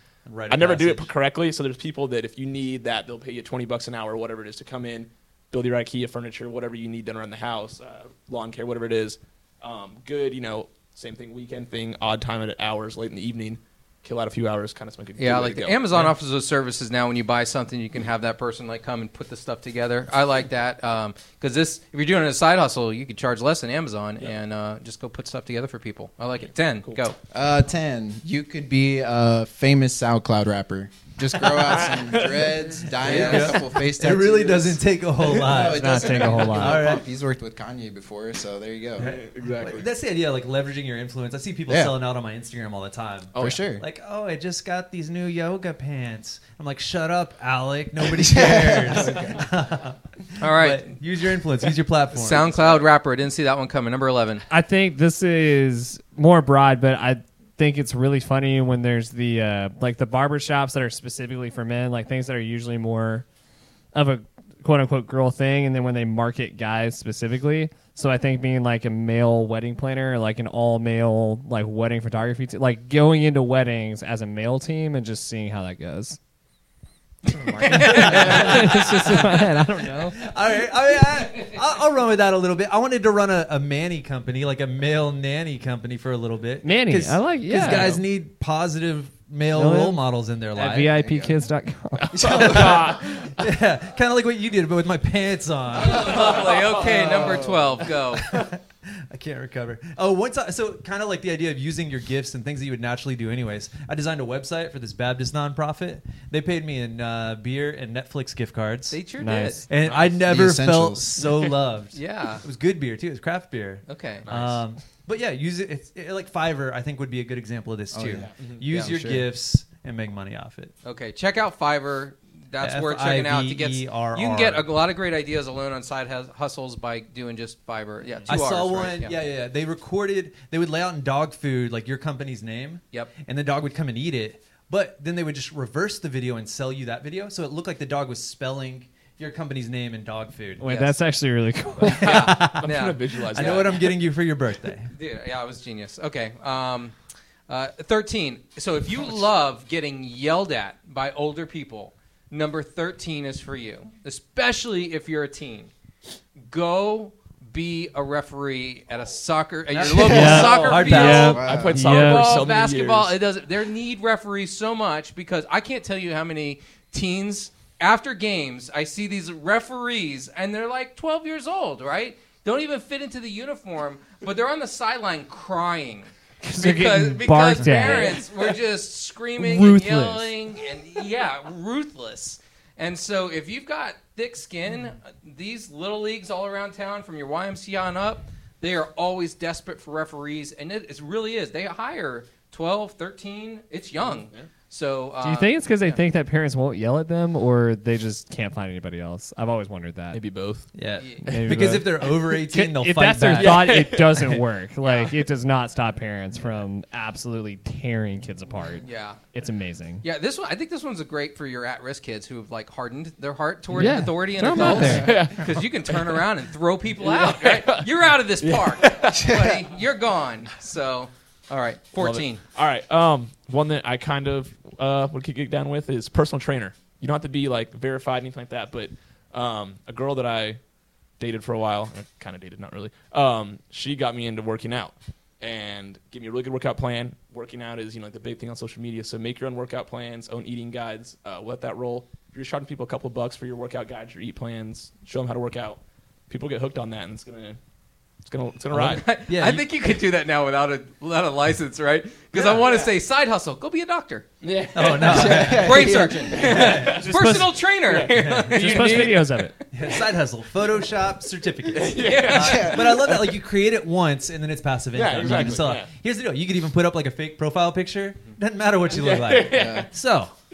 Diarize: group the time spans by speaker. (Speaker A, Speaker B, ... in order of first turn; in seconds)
Speaker A: 0.3-1.1, 33.0-37.0, 39.0-52.6, 77.7-91.0, 92.2-97.1, 98.1-109.0, 109.7-120.7, 122.6-124.7, 128.3-140.6, 141.9-144.9, 159.7-161.4, 177.6-178.1, 200.7-203.9, 214.5-215.0, 248.7-249.7, 254.7-257.1, 258.1-259.0, 259.7-270.3
Speaker B: 0.5-16.1, 31.4-32.8, 39.0-39.9, 43.3-43.6, 49.1-49.4, 92.1-93.3, 95.8-97.8, 109.8-110.2, 114.2-114.6, 118.3-118.6, 141.9-143.9, 160.2-163.1, 194.0-194.5, 200.1-200.7, 201.2-201.8, 203.3-204.4, 214.8-216.3, 217.0-217.9, 218.4-219.3, 221.9-230.6, 231.2-247.6, 248.2-249.0, 252.3-252.9, 254.4-259.5, 261.7-263.3, 264.9-265.9, 268.9-269.9
Speaker C: 15.2-27.1, 33.1-33.5, 50.4-51.0, 52.1-54.4, 77.6-79.3, 95.8-98.3, 108.9-109.7, 111.9-112.4, 113.9-114.3, 118.7-119.1, 120.8-129.2, 140.6-141.0, 141.9-143.8, 144.9-146.9, 147.5-155.7, 156.5-196.0, 201.0-201.3, 204.8-205.2, 208.8-209.2, 210.0-222.4, 248.9-254.3, 254.9-259.1, 262.0-262.7
Speaker D: 27.3-39.1, 41.7-41.9, 43.3-43.8, 48.0-49.4, 77.3-78.4, 91.0-91.3, 92.2-92.9, 110.2-111.2, 117.9-119.2, 161.2-161.8, 219.2-219.6, 255.1-256.6, 262.4-263.0, 269.5-269.9
Speaker E: 35.7-36.9, 54.5-63.2, 63.9-76.2, 77.7-80.2, 86.6-88.0, 89.5-90.0, 90.5-92.3, 109.2-109.6, 140.6-142.1, 160.0-162.3, 176.4-178.2, 179.4-180.3, 195.2-200.2, 201.2-210.0, 213.7-215.1, 256.9-257.6, 258.4-259.5